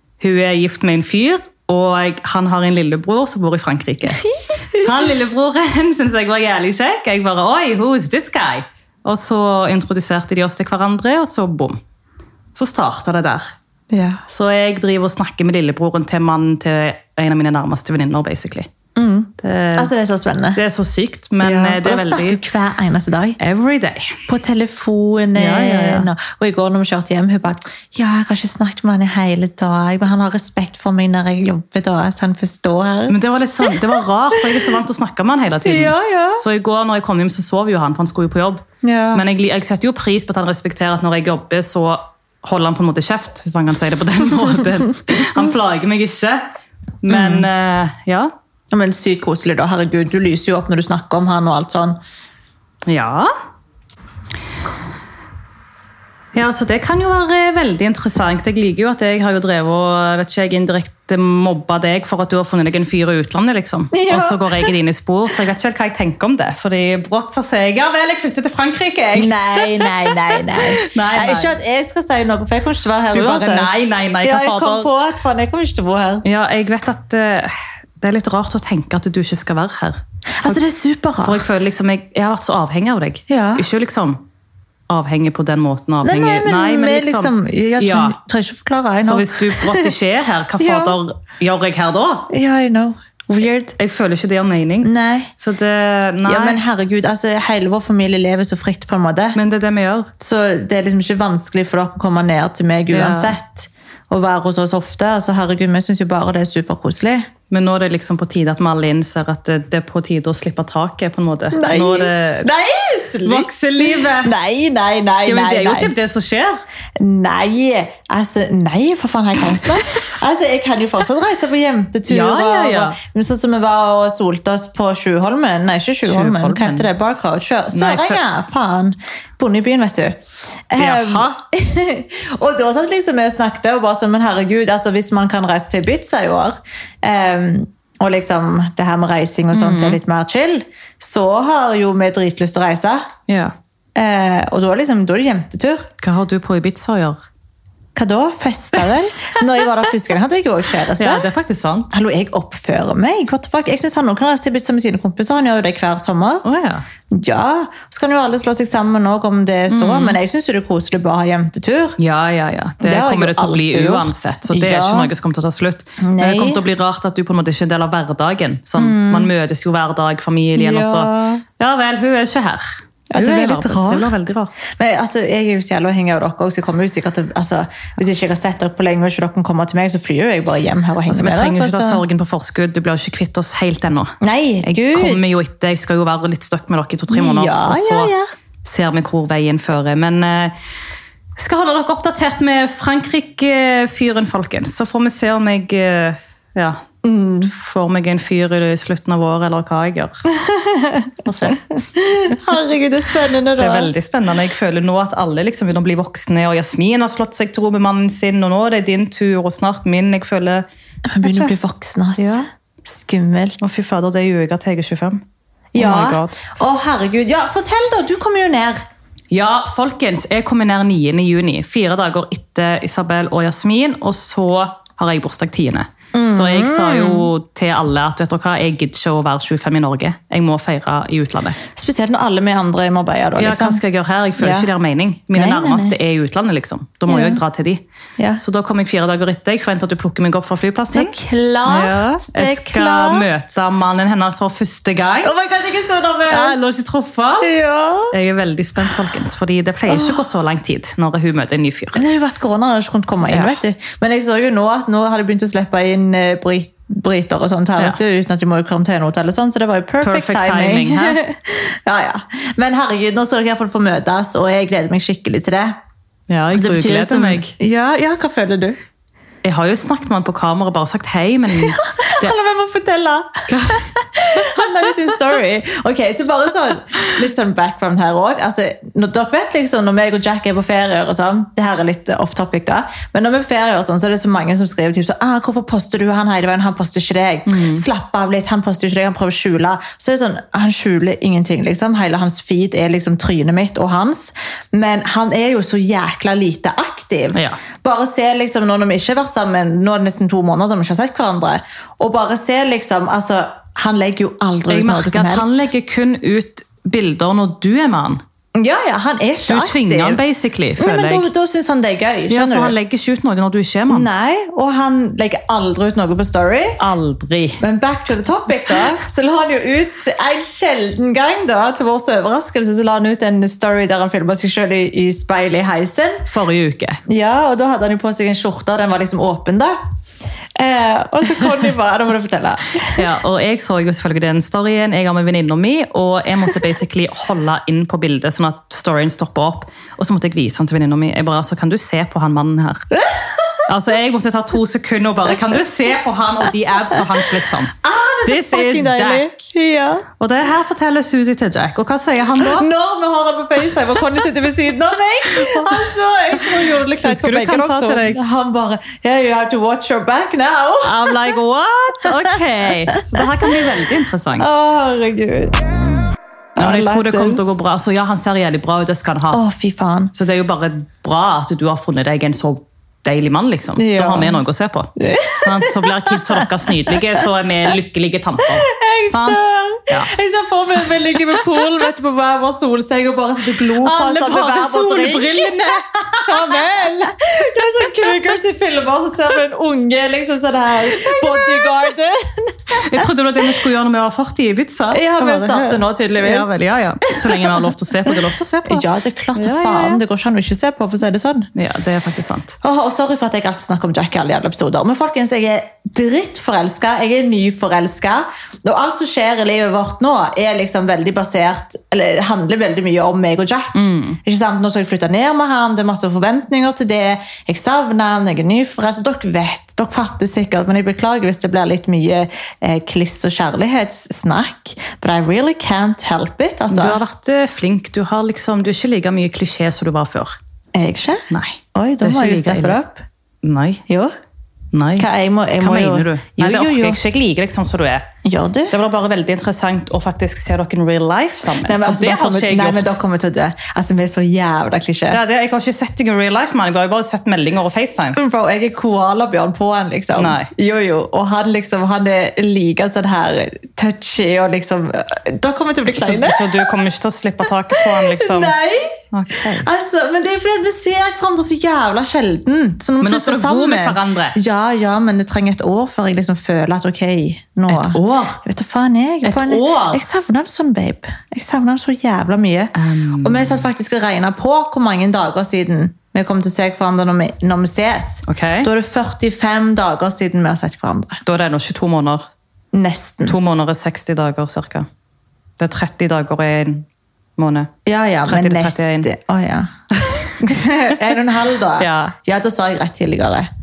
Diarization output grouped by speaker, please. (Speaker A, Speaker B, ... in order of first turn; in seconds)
Speaker A: 0.2-11.8, 12.5-13.5, 14.3-18.7, 19.4-19.9, 20.5-22.4, 23.4-24.2, 25.4-26.1, 33.1-46.4, 47.0-48.3, 52.9-53.3, 56.3-71.5, 73.1-74.9, 76.2-80.6, 81.2-84.2, 84.9-88.2, 89.0-92.3, 93.8-96.6, 99.3-100.1, 102.9-103.4, 107.5-112.5, 113.2-114.3, 115.2-116.6, 122.1-123.0, 126.0-126.9, 127.7-128.2, 130.8-131.3, 139.5-140.0, 143.3-143.5, 146.0-147.2, 151.0-151.9, 156.4-156.9, 159.7-160.2, 162.0-172.6, 173.1-174.5, 181.1-188.1, 188.6-190.5, 191.4-196.8, 197.4-200.3, 201.2-201.6, 203.6-210.6, 211.2-211.5, 212.2-212.4, 213.6-215.2, 215.8-216.4, 219.3-231.6, 233.4-237.8, 238.4-241.1, 241.7-245.3, 246.3-247.5, 248.1-252.0, 253.3-253.6, 260.0-261.2, 266.3-267.5, 269.4-272.4, 273.5-273.9, 287.5-287.8, 297.3-297.6, 304.7-308.2, 309.5-311.3, 312.3-314.1, 316.8-317.6, 326.3-327.0, 332.9-342.9, 343.7-349.2, 350.2-352.7, 355.4-355.6, 356.7-358.2, 360.8-364.5, 366.6-369.4, 370.1-380.1, 383.7-386.9, 390.9-391.7, 392.8-400.0, 401.5-402.6, 413.7-414.2, 426.7-430.4, 431.3-432.8, 433.4-433.8, 434.7-435.1, 435.6-438.1, 438.7-443.0, 445.1-448.2, 450.1-450.5, 455.9-458.6, 459.1-459.6, 463.0-464.4, 467.7-468.4, 469.2-470.0, 472.8-473.6, 478.3-478.7, 481.2-482.3, 483.3-484.9, 485.6-487.7, 488.3-489.1, 490.1-490.3, 491.8-492.1
Speaker B: 13.9-14.2, 19.0-20.6, 21.4-23.4, 24.3-34.6, 35.6-36.4, 38.8-39.2, 47.1-47.5, 48.7-52.0, 63.9-64.7, 69.1-76.2, 80.4-81.5, 83.3-83.6, 86.0-89.9, 90.6-91.0, 92.3-93.8, 94.8-95.3, 96.2-99.4, 100.2-107.3, 111.5-115.9, 117.0-143.1, 143.9-145.9, 147.9-151.3, 151.9-156.4, 157.1-162.0, 162.8-165.1, 166.0-166.6, 168.8-169.3, 170.6-171.4, 173.1-174.1, 174.8-182.0, 184.2-185.3, 187.1-188.3, 197.0-197.5, 200.4-203.9, 211.1-213.6, 215.7-218.8, 226.1-227.3, 231.7-233.8, 234.4-234.7, 235.3-236.0, 237.1-237.4, 240.9-243.3, 245.2-246.6, 247.4-248.1, 249.9-250.2, 251.9-265.8, 266.5-268.8, 271.5-305.7, 308.6-310.2, 310.8-312.8, 313.9-316.8, 317.6-326.2, 327.1-329.8, 330.6-333.0, 347.8-350.1, 352.4-361.2, 362.9-363.2, 364.4-365.5, 366.5-367.5, 369.3-370.1, 373.8-374.4, 375.0-377.0, 378.6-393.1, 394.9-396.6, 397.1-401.5, 402.6-427.0, 430.8-433.0, 433.9-434.1, 435.0-437.0, 438.2-438.7, 441.6-445.2, 448.1-456.7, 457.7-481.2, 482.7-483.4, 487.9-493.5